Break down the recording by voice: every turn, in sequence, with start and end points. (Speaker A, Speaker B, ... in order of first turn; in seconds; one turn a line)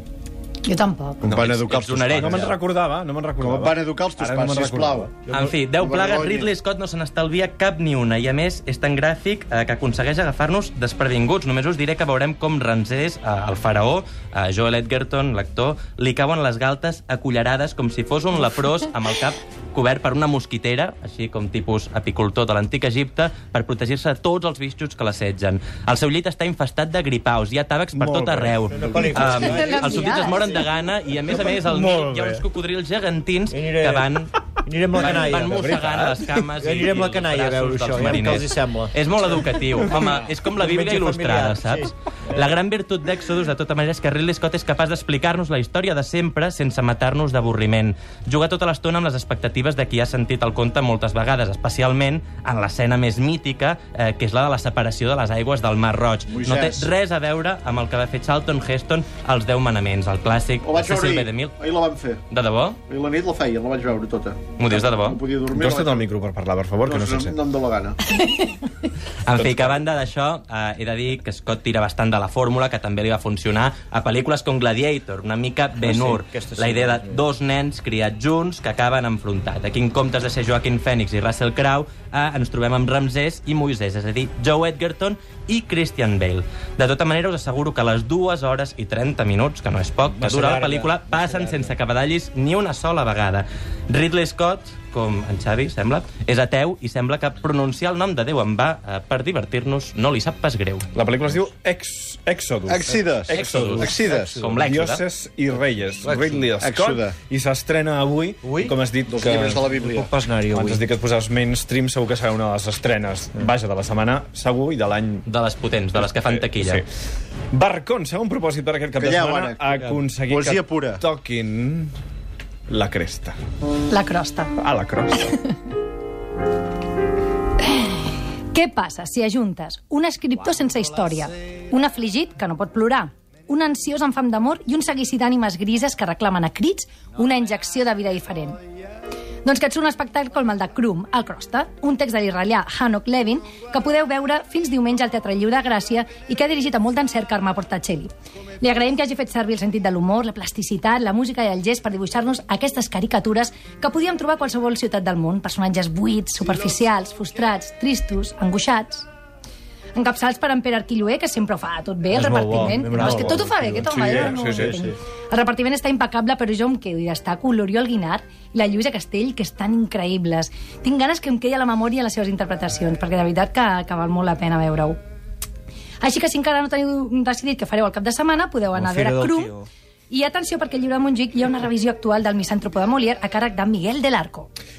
Speaker A: 0.6-1.2
Speaker B: 1.2-2.5
Speaker C: 1.2-2.6
Speaker D: 2.1-5.1
Speaker B: 3.4-5.1
Speaker E: 5.3-5.5
Speaker C: 5.3-34.3
Speaker B: 5.8-6.5
Speaker D: 27.9-29.1
Speaker E: 28.7-30.5
Speaker A: 29.2-30.5
Speaker D: 31.4-32.4
Speaker E: 33.5-36.0
Speaker C: 34.9-61.5
Speaker D: 35.0-36.3
Speaker E: 36.6-38.9
Speaker E: 40.5-42.5
Speaker B: 56.3-56.9
Speaker B: 60.6-62.2
Speaker C: 62.3-62.8
Speaker B: 62.9-66.0
Speaker C: 64.6-65.2
Speaker D: 65.5-67.4
Speaker B: 66.8-68.0
Speaker C: 69.2-100.9
Speaker E: 75.8-77.2
Speaker E: 90.2-91.7
Speaker D: 100.9-109.7
Speaker B: 102.7-104.4
Speaker C: 103.3-105.0
Speaker E: 104.0-104.6
Speaker E: 106.0-106.5
Speaker B: 106.6-107.2
Speaker E: 108.4-108.8
Speaker B: 109.1-110.1
Speaker E: 109.6-110.8
Speaker D: 110.5-115.2
Speaker C: 115.3-116.8
Speaker D: 116.0-116.8
Speaker D: 117.5-121.9
Speaker B: 119.0-119.6
Speaker E: 119.8-120.0
Speaker B: 120.3-121.0
Speaker D: 122.7-123.4
Speaker A: 123.9-124.5
Speaker D: 124.6-125.4
Speaker A: 127.7-127.9
Speaker A: 128.5-138.6
Speaker A: 139.4-159.1
Speaker A: 159.9-175.0
Speaker E: 162.1-164.9
Speaker D: 163.0-164.8
Speaker A: 176.0-179.5
Speaker E: 178.7-179.7
Speaker A: 180.1-184.5